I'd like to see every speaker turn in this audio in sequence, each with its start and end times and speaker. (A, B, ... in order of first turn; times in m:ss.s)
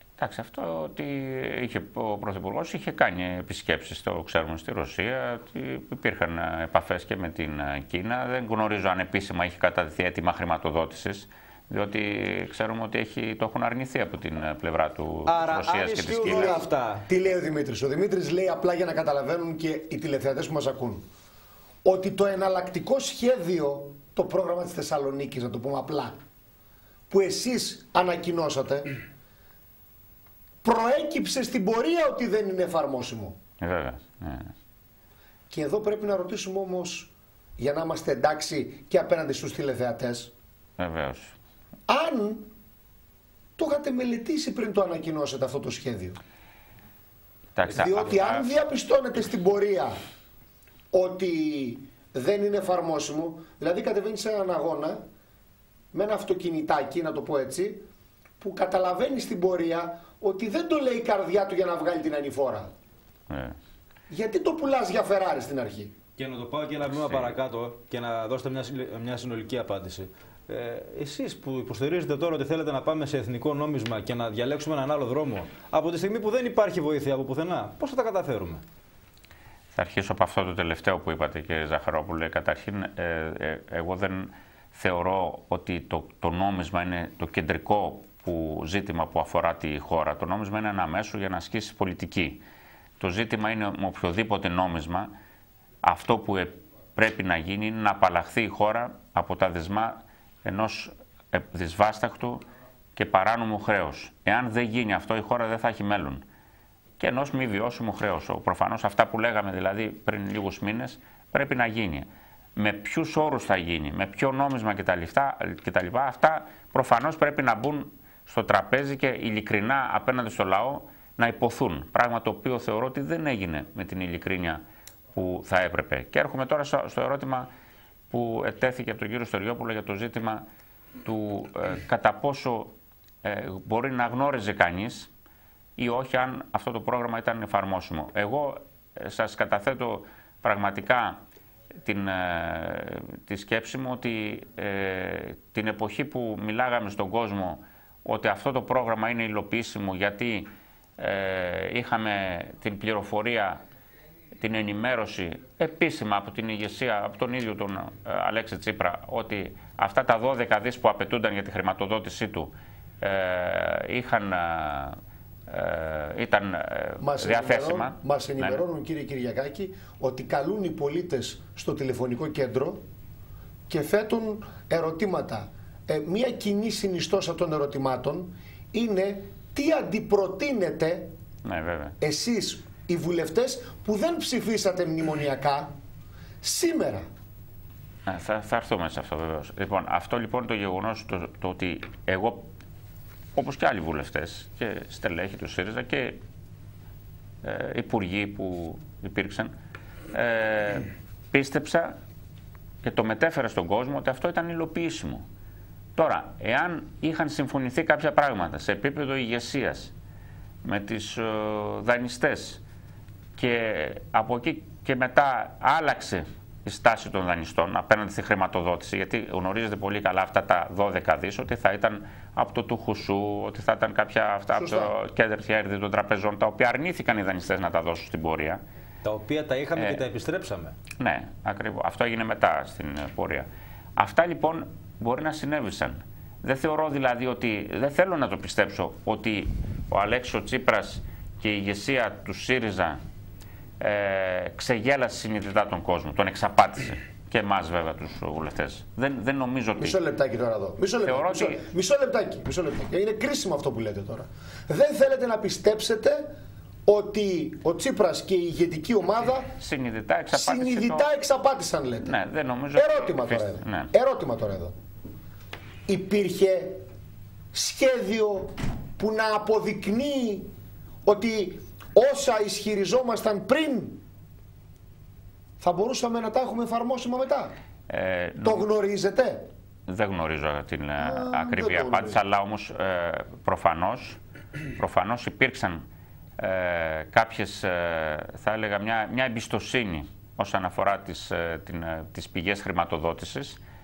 0:00.2-0:16.6 A
0:15.3-0:17.1 B
0:16.2-0:21.0 C
0:21.8-0:26.2 C
0:27.1-0:28.9 C
0:30.6-0:33.4 C
0:33.6-0:34.5 A
0:35.5-0:40.3 C
0:40.8-0:41.4 A
0:41.9-0:42.5 C
0:43.6-0:46.2 C
0:47.6-0:48.4 A
0:47.7-0:50.0 C
0:50.9-0:55.0 C
0:55.9-0:57.8 C
0:58.4-1:02.7 C
1:03.3-1:03.6 A
1:04.1-1:06.0 C
1:06.2-1:18.6 B
1:06.9-1:07.4 A
1:19.7-1:32.4 A
1:33.0-1:35.1 A
1:35.8-1:42.4 A
1:43.0-1:46.2 A
1:47.0-2:04.6 A
2:05.1-2:07.5 A
2:08.1-2:10.5 A
2:11.0-2:15.1 A
2:15.8-2:21.2 A
2:21.8-2:33.6 A
2:34.4-2:48.6 A
2:47.0-2:52.8 C
2:53.7-3:01.1 C
3:01.4-3:02.0 A
3:02.0-3:05.7 C
3:06.4-3:07.1 C
3:08.1-3:12.5 A
3:13.4-3:16.2 A
3:17.4-3:19.5 A
3:20.1-3:22.0 A
3:22.8-3:25.3 A
3:26.0-3:29.9 A
3:30.6-3:32.6 A
3:33.4-3:48.6 A
3:44.6-3:44.9 C
3:49.0-3:50.8 B
3:49.8-3:50.0 A
3:51.0-4:03.0 A
4:03.8-4:10.0 A
4:09.8-4:16.3 C
4:11.0-4:11.7 A
4:16.9-4:19.5 C
4:19.6-4:21.1 A
4:20.3-4:22.1 C
4:22.0-4:23.9 A
4:22.8-4:24.7 C
4:25.9-4:26.8 C
4:27.5-4:30.5 C
4:31.0-4:34.0 C
4:35.6-4:37.5 C
4:37.9-4:38.7 A
4:38.4-4:39.5 C
4:39.9-4:44.2 A
4:41.0-4:42.2 C
4:44.8-4:45.8 A
4:46.4-4:53.6 A